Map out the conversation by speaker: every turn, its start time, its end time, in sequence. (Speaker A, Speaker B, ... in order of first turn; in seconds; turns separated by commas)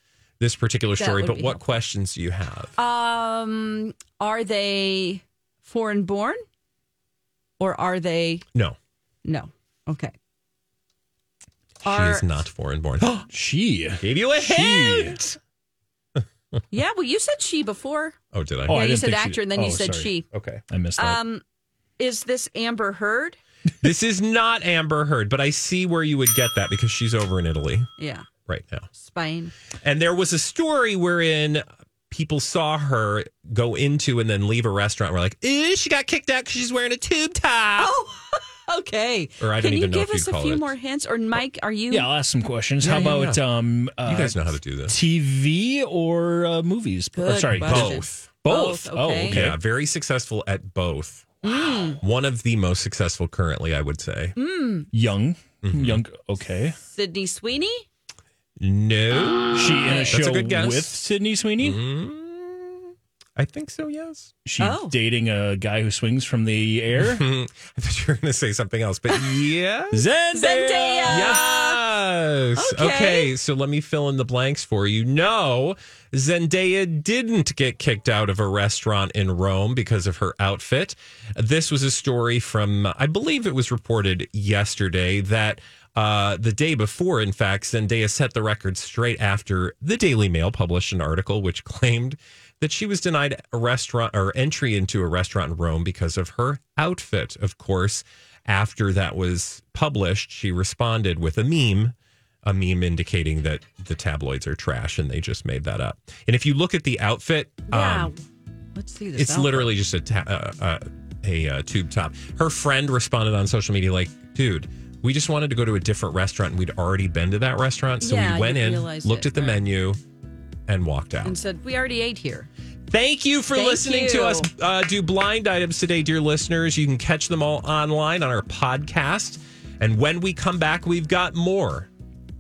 Speaker A: 0.4-2.7, Speaker B: 1.0-1.6, Speaker B: 2.8-6.4, Speaker B: 7.6-8.4, Speaker B: 9.2-10.1, Speaker B: 11.8-12.3, Speaker A: 11.8-13.3, Speaker C: 13.2-15.1, Speaker A: 14.0-15.4, Speaker B: 16.7-18.2, Speaker A: 18.3-18.8, Speaker C: 18.7-20.1, Speaker B: 18.7-20.3, Speaker A: 20.3-20.6, Speaker C: 20.7-21.2, Speaker B: 21.0-21.4, Speaker B: 22.0-23.4, Speaker A: 23.8-27.9, Speaker B: 28.0-28.3, Speaker A: 28.5-28.9, Speaker B: 28.9-29.5, Speaker A: 29.8-37.9, Speaker B: 37.8-42.1, Speaker A: 39.4-40.7, Speaker C: 41.9-49.6, Speaker A: 42.8-43.4, Speaker A: 44.0-45.0, Speaker B: 47.2-49.4, Speaker A: 47.6-48.4, Speaker A: 49.2-51.4, Speaker B: 51.4-52.0, Speaker A: 52.0-54.4, Speaker B: 54.4-54.9, Speaker C: 54.9-56.8, Speaker A: 55.6-56.0, Speaker B: 56.8-57.9, Speaker A: 58.6-61.0, Speaker C: 59.5-61.8, Speaker B: 59.9-60.2, Speaker A: 61.6-64.3, Speaker C: 64.5-67.2, Speaker B: 64.6-65.0, Speaker A: 67.0-70.1, Speaker C: 69.9-71.4, Speaker B: 70.3-71.8, Speaker A: 71.0-108.1, Speaker B: 72.6-73.3, Speaker B: 107.7-108.2, Speaker B: 108.8-109.7, Speaker A: 109.2-120.0, Speaker B: 118.0-119.6, Speaker A: 120.7-121.4, Speaker B: 121.2-122.5, Speaker A: 122.9-131.9, Speaker B: 123.5-124.5